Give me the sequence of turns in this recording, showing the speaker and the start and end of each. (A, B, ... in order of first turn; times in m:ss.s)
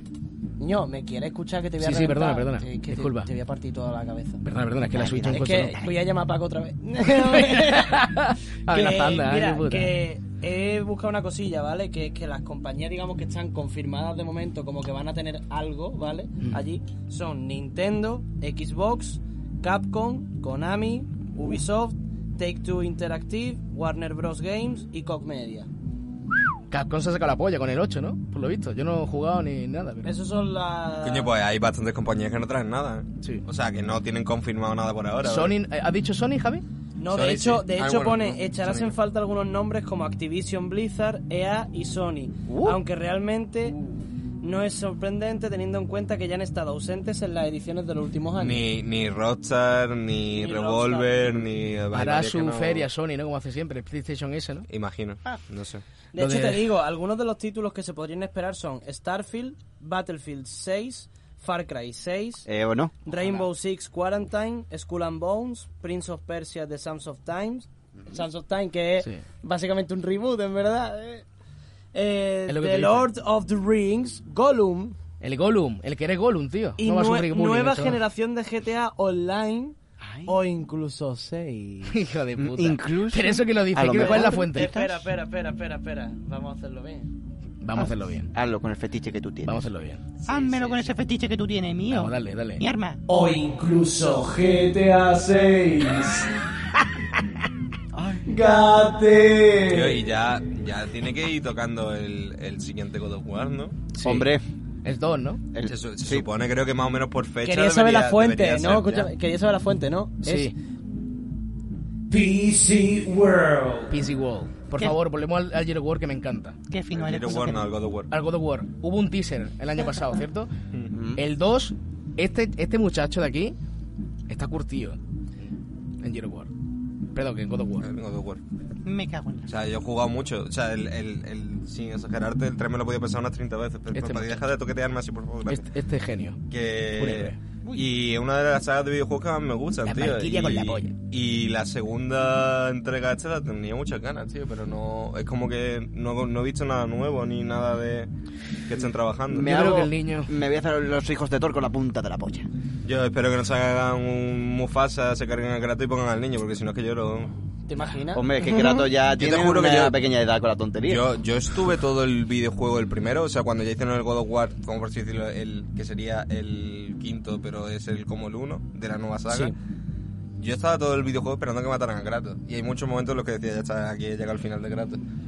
0:00.6-0:04.4 A
0:01.8-0:03.3 B
0:04.4-0:05.8 B
0:04.9-0:05.7 C
0:05.3-0:08.1 A
0:07.1-0:10.0 B
0:08.7-0:25.7 A
0:26.7-0:30.1 B
0:30.0-0:31.3 A
0:31.0-0:35.6 D
0:35.2-0:36.6 B
0:37.0-0:43.8 A
0:37.1-0:39.0 D
0:42.5-0:42.8 C
0:44.4-0:48.7 A
0:48.4-0:52.9 D
0:50.3-0:51.5 A
0:51.9-0:54.7 B
0:54.7-0:55.8 D
0:56.1-1:02.5 A
0:56.2-0:56.6 B
1:02.5-1:03.0 C
1:03.0-1:11.2 A
1:11.9-1:15.0 A
1:12.5-1:13.1 B
1:15.2-1:18.0 B
1:16.8-1:22.0 A
1:20.0-1:20.4 C
1:21.9-1:24.8 B
1:22.4-1:24.9 C
1:23.9-1:27.1 A
1:27.6-1:28.3 B
1:28.3-1:29.6 C
1:29.4-1:30.0 B
1:30.3-1:33.0 E
1:30.3-1:30.8 A
1:31.9-1:32.6 B
1:33.1-1:36.3 A
1:37.9-1:38.3 C
1:38.3-1:40.0 A
1:39.7-1:43.8 D
1:43.9-1:44.3 B
1:44.0-1:44.4 C
1:44.8-1:45.4 B
1:45.5-1:46.3 C
1:45.7-1:49.1 D
1:47.4-1:50.5 A
1:50.2-1:50.5 B
1:52.1-1:54.0 A
1:53.9-1:56.6 B
1:56.7-1:57.7 E
1:56.9-1:58.1 D
1:58.1-2:00.5 B
2:00.9-2:01.2 C
2:01.2-2:03.6 B
2:04.3-2:05.0 B
2:06.0-2:06.5 B
2:07.1-2:07.9 B
2:07.8-2:08.4 D
2:08.8-2:09.5 E
2:09.5-2:15.7 D
2:13.9-2:14.4 B
2:15.5-2:16.4 B
2:16.5-2:28.1 D
2:17.0-2:17.4 B
2:19.8-2:20.9 B
2:28.7-2:29.6 D
2:29.3-2:32.5 C
2:29.3-2:30.3 B
2:32.8-2:37.3 D
2:37.7-2:38.3 A
2:38.1-2:41.0 C
2:39.2-2:40.0 D
2:40.9-2:49.5 D
2:49.3-2:49.5 B
2:50.4-2:55.0 D